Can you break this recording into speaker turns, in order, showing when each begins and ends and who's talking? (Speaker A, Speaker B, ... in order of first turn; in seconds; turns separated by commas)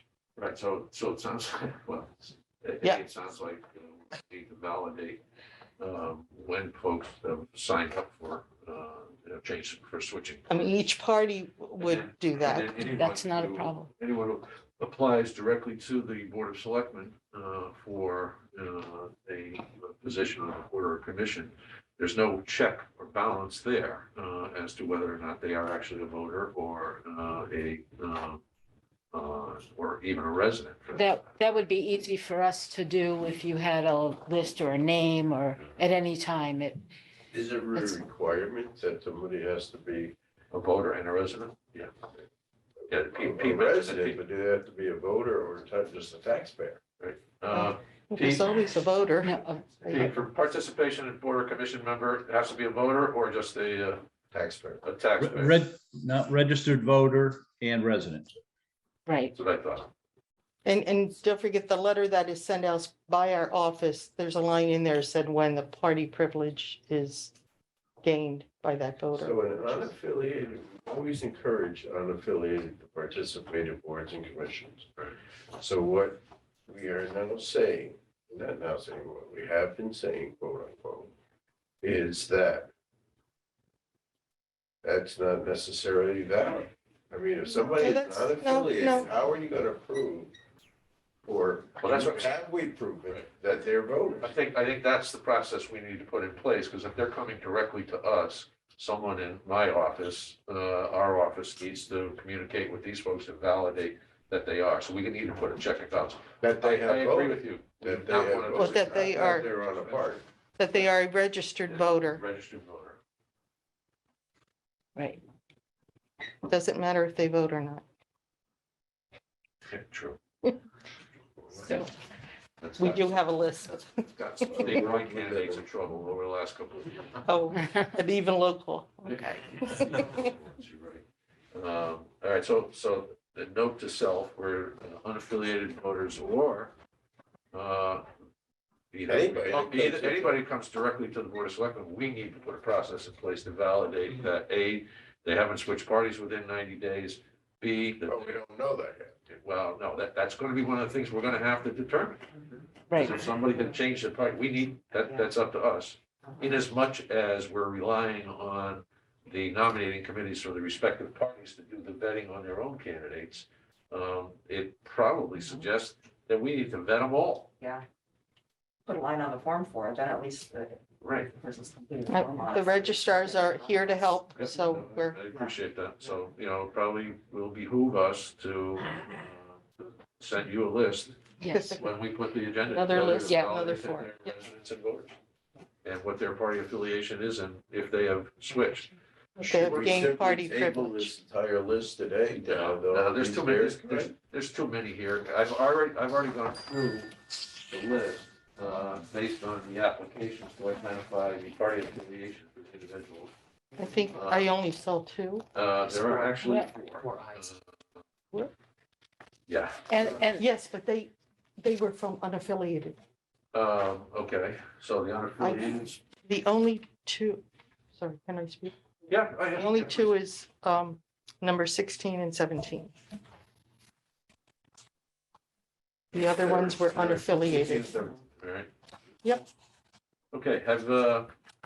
Speaker A: 0.4-5.2, Speaker A: 5.8-10.6, Speaker B: 10.5-12.7, Speaker A: 11.8-28.4, Speaker C: 12.9-13.9, Speaker A: 29.1-31.1, Speaker C: 30.9-36.8, Speaker D: 37.3-40.1, Speaker A: 40.5-41.9, Speaker A: 42.9-44.2, Speaker D: 42.9-46.8, Speaker A: 47.0-48.5, Speaker B: 47.5-50.1, Speaker C: 49.2-50.1, Speaker A: 49.9-54.0, Speaker D: 54.3-54.8, Speaker A: 54.8-55.6, Speaker E: 55.2-58.4, Speaker C: 59.0-59.3, Speaker A: 59.3-59.9, Speaker B: 60.6-67.3, Speaker B: 68.0-69.9, Speaker D: 69.1-74.8, Speaker D: 75.6-81.1, Speaker D: 81.8-82.7, Speaker D: 84.8-90.3, Speaker B: 87.7-89.1, Speaker D: 91.2-94.3, Speaker A: 91.8-92.3, Speaker A: 94.2-110.1, Speaker D: 106.4-110.2, Speaker B: 108.5-109.5, Speaker B: 110.6-112.2, Speaker A: 111.7-113.0, Speaker C: 115.0-115.2, Speaker B: 116.5-117.8, Speaker A: 119.7-120.2, Speaker C: 121.6-121.9, Speaker A: 122.6-123.1, Speaker B: 122.8-124.8, Speaker A: 124.1-127.2, Speaker D: 124.6-125.6, Speaker B: 127.2-130.2, Speaker A: 129.1-131.0, Speaker A: 131.5-136.7, Speaker A: 137.5-138.1, Speaker A: 138.9-148.4, Speaker D: 139.1-140.4, Speaker D: 148.1-149.2, Speaker A: 149.3-152.4, Speaker C: 152.9-153.2, Speaker A: 152.9-167.5, Speaker F: 156.3-156.5, Speaker F: 168.9-170.8, Speaker A: 171.0-171.3, Speaker F: 171.4-174.1, Speaker B: 172.1-175.2, Speaker A: 174.3-181.2, Speaker C: 181.4-181.8, Speaker B: 181.5-181.8, Speaker A: 181.8-185.1, Speaker B: 182.7-184.1, Speaker A: 185.8-190.1, Speaker B: 189.4-191.1, Speaker D: 189.5-194.1, Speaker A: 192.4-197.1, Speaker A: 197.7-203.3, Speaker B: 203.8-205.4, Speaker A: 204.1-204.5, Speaker A: 205.5-207.6, Speaker F: 206.0-206.3, Speaker C: 206.4-206.7, Speaker F: 207.1-207.4, Speaker A: 209.5-209.8, Speaker C: 209.9-210.4, Speaker B: 210.3-212.9, Speaker A: 213.5-216.0, Speaker B: 215.4-215.7, Speaker B: 216.2-217.4, Speaker B: 217.9-218.7, Speaker A: 219.1-220.0, Speaker B: 219.5-222.9, Speaker B: 226.1-228.0, Speaker A: 226.2-228.7, Speaker A: 230.3-231.3